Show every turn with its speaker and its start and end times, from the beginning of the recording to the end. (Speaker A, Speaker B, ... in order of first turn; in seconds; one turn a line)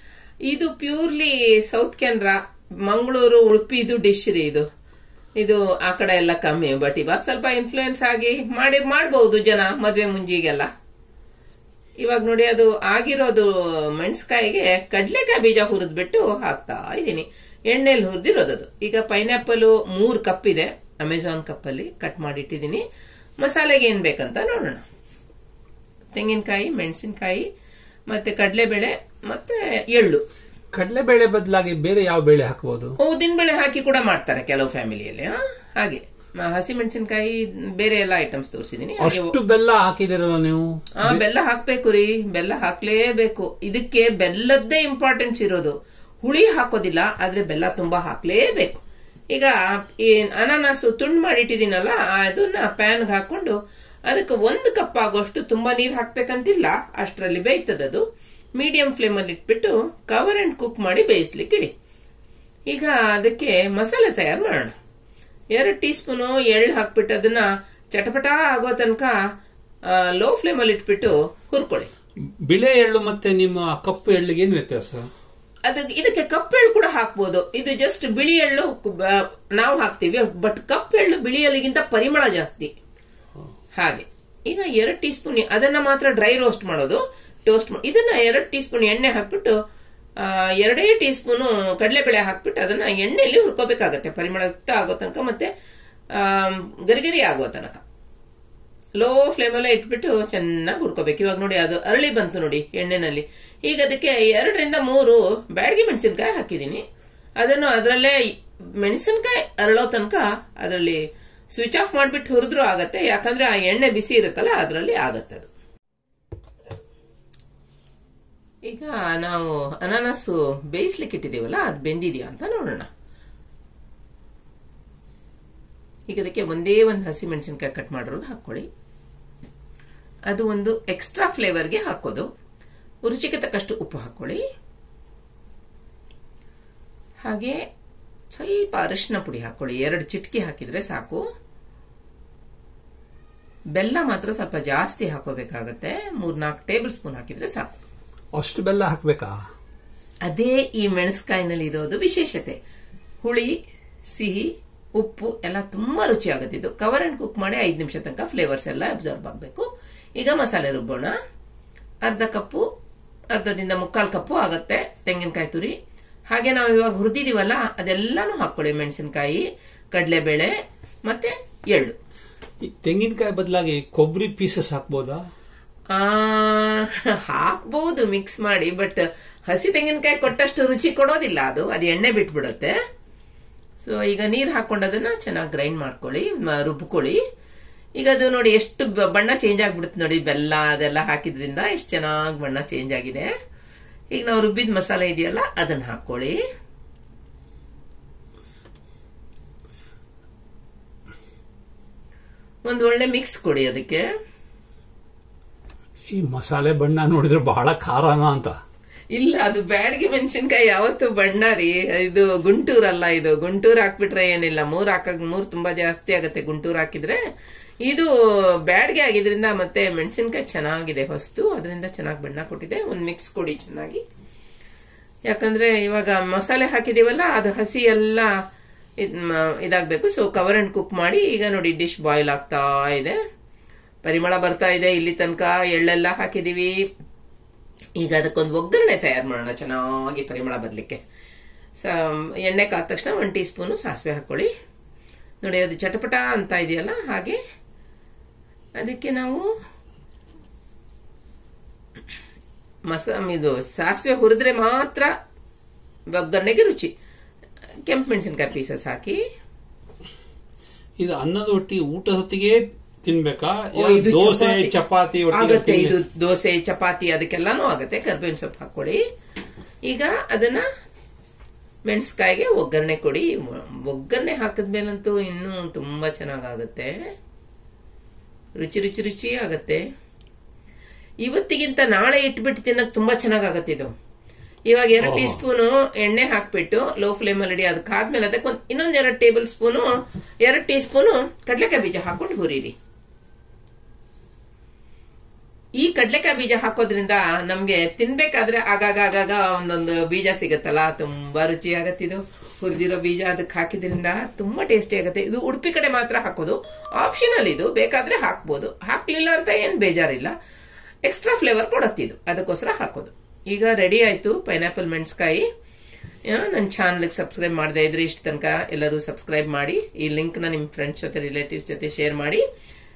Speaker A: 0.5-4.7
Speaker A: 5.4-10.7
Speaker A: 12.0-22.8
Speaker A: 23.4-24.8
Speaker A: 26.1-27.5
Speaker A: 28.1-30.2
Speaker B: 30.8-32.9
Speaker A: 33.0-39.3
Speaker B: 39.0-41.2
Speaker A: 41.0-48.8
Speaker A: 49.3-53.5
Speaker A: 54.1-58.0
Speaker A: 58.6-61.7
Speaker A: 62.7-64.7
Speaker A: 65.5-69.1
Speaker A: 69.9-71.9
Speaker B: 72.4-75.0
Speaker A: 75.7-82.7
Speaker A: 83.8-89.5
Speaker A: 90.2-95.5
Speaker A: 96.1-97.8
Speaker A: 99.0-106.8
Speaker A: 107.4-108.2
Speaker A: 108.8-111.0
Speaker A: 111.5-115.5
Speaker A: 118.7-122.9
Speaker A: 126.1-128.7
Speaker A: 130.3-132.3
Speaker A: 133.1-134.4
Speaker A: 137.2-137.6
Speaker A: 138.3-141.2
Speaker A: 143.8-147.8
Speaker B: 148.4-149.4
Speaker A: 150.3-152.6
Speaker A: 153.2-153.6
Speaker A: 154.1-161.1
Speaker A: 162.0-162.7
Speaker A: 163.3-165.7
Speaker A: 166.3-170.5
Speaker A: 171.1-172.0
Speaker B: 172.6-175.2
Speaker A: 175.9-182.8
Speaker A: 183.8-187.2
Speaker A: 188.0-193.3
Speaker A: 194.1-196.4
Speaker A: 202.7-204.0
Speaker B: 206.1-208.6
Speaker A: 209.1-217.2
Speaker A: 218.7-224.0
Speaker A: 225.3-228.3
Speaker A: 229.0-233.2
Speaker A: 234.0-236.8
Speaker A: 238.0-241.0
Speaker A: 241.8-244.5
Speaker A: 245.4-247.4
Speaker A: 248.8-249.5
Speaker A: 252.9-255.1
Speaker A: 256.1-256.9
Speaker A: 257.9-259.2
Speaker B: 261.0-266.0
Speaker A: 263.8-264.7
Speaker A: 265.3-269.0
Speaker A: 269.9-270.6
Speaker A: 271.9-276.9
Speaker A: 278.6-279.8
Speaker A: 281.2-283.9
Speaker A: 284.7-289.9
Speaker B: 285.0-285.4
Speaker A: 290.4-292.7
Speaker A: 295.8-310.3
Speaker A: 311.1-315.5
Speaker A: 316.3-322.4